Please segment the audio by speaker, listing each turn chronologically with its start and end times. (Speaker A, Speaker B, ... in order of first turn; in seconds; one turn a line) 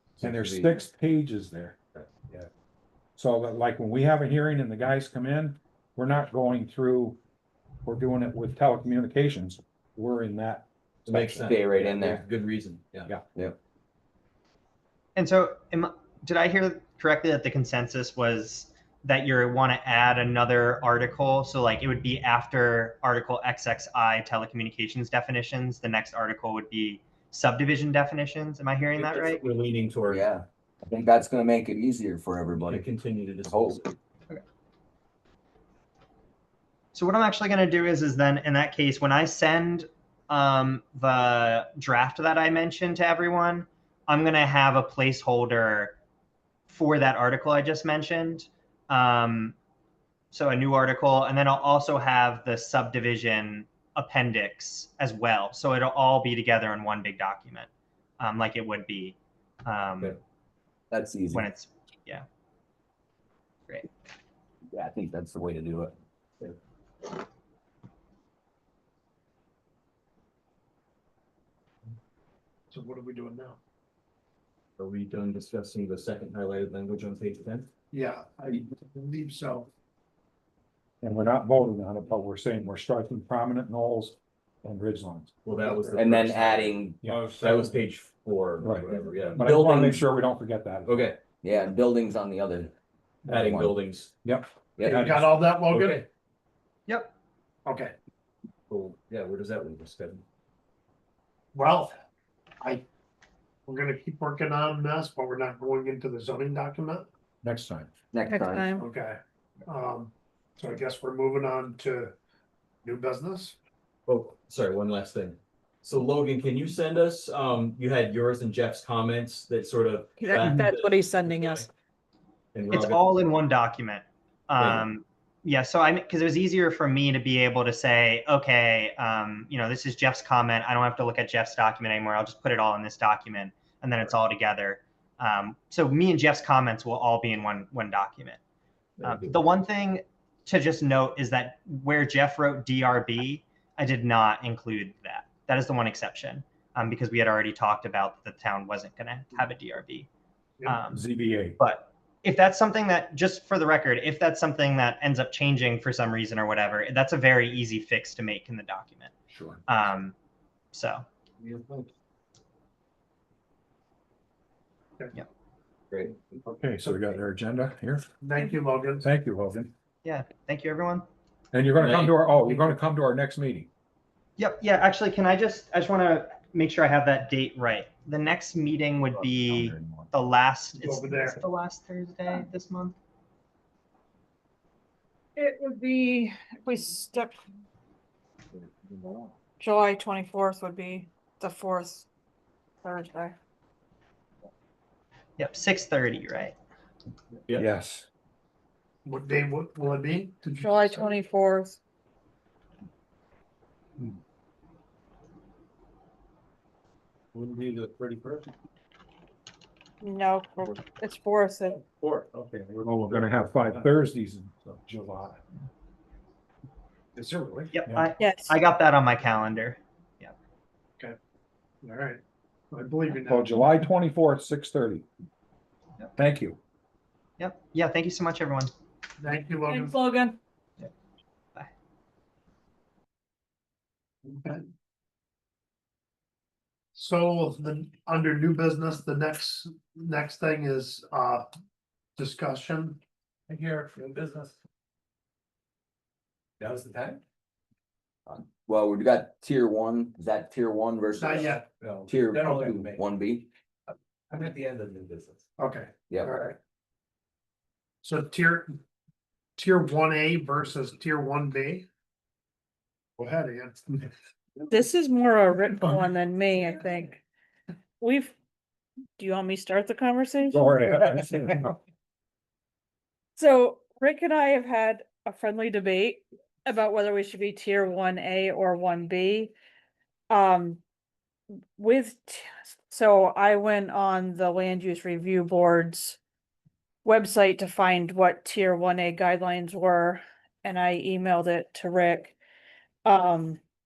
Speaker A: 0.2-0.8
Speaker B: 0.2-2.5
Speaker B: 3.2-7.2
Speaker B: 7.8-10.7
Speaker C: 11.1-13.1
Speaker A: 11.1-12.2
Speaker D: 15.2-29.4
Speaker C: 29.0-30.4
Speaker A: 30.1-32.9
Speaker C: 32.7-33.9
Speaker A: 33.4-33.9
Speaker D: 36.9-46.0
Speaker D: 46.7-49.5
Speaker D: 50.3-57.7
Speaker D: 58.2-60.2
Speaker A: 60.9-61.5
Speaker D: 61.3-62.2
Speaker A: 64.7-66.0
Speaker E: 72.7-73.6
Speaker C: 74.8-77.7
Speaker E: 77.9-79.7
Speaker B: 81.0-85.3
Speaker C: 85.4-90.1
Speaker E: 85.6-86.0
Speaker A: 86.0-87.0
Speaker B: 87.0-87.7
Speaker B: 88.6-91.1
Speaker C: 90.8-91.2
Speaker A: 91.4-92.7
Speaker C: 93.2-94.1
Speaker A: 93.3-93.7
Speaker B: 94.2-95.3
Speaker E: 94.8-96.0
Speaker C: 95.7-96.1
Speaker E: 97.6-97.9
Speaker C: 98.7-100.2
Speaker E: 101.5-101.9
Speaker E: 103.7-107.1
Speaker B: 107.4-107.9
Speaker A: 108.1-108.7
Speaker F: 108.2-108.9
Speaker E: 108.8-112.1
Speaker E: 112.8-113.5
Speaker C: 114.1-121.7
Speaker F: 120.2-121.7
Speaker C: 122.5-123.0
Speaker D: 122.7-138.4
Speaker C: 124.6-124.9
Speaker C: 139.0-139.5
Speaker D: 139.0-150.1
Speaker D: 150.6-151.0
Speaker B: 150.9-151.6
Speaker D: 151.6-159.1
Speaker D: 159.7-160.1
Speaker D: 160.7-161.0
Speaker B: 166.4-168.1
Speaker E: 166.8-167.1
Speaker E: 168.2-169.1
Speaker B: 169.0-169.7
Speaker D: 170.0-171.0
Speaker B: 171.5-173.7
Speaker C: 171.8-172.2
Speaker D: 174.4-182.9
Speaker B: 179.2-180.1
Speaker E: 180.8-181.4
Speaker F: 185.3-187.4
Speaker F: 189.6-192.1
Speaker F: 192.8-193.3
Speaker D: 195.4-196.6
Speaker B: 197.5-198.1
Speaker E: 199.0-201.1
Speaker F: 200.6-201.8
Speaker F: 210.0-211.8
Speaker B: 212.8-215.4
Speaker D: 217.7-220.3
Speaker F: 218.2-218.6
Speaker E: 221.8-222.2
Speaker E: 222.7-223.6
Speaker B: 223.2-225.1
Speaker B: 226.2-226.6
Speaker D: 227.4-228.7
Speaker E: 229.2-229.9
Speaker F: 229.7-230.4
Speaker E: 234.2-234.7
Speaker E: 236.9-241.4
Speaker E: 242.2-243.0
Speaker A: 248.3-253.5
Speaker E: 251.2-251.6
Speaker E: 255.6-256.6
Speaker A: 256.1-256.4
Speaker E: 258.0-258.8
Speaker E: 259.6-261.9
Speaker E: 263.2-264.0
Speaker F: 264.7-267.2
Speaker F: 268.0-268.4
Speaker F: 269.2-271.2
Speaker B: 270.5-271.8
Speaker F: 273.4-279.5
Speaker F: 280.3-280.8
Speaker F: 281.8-286.2
Speaker F: 287.0-292.4
Speaker F: 293.0-293.6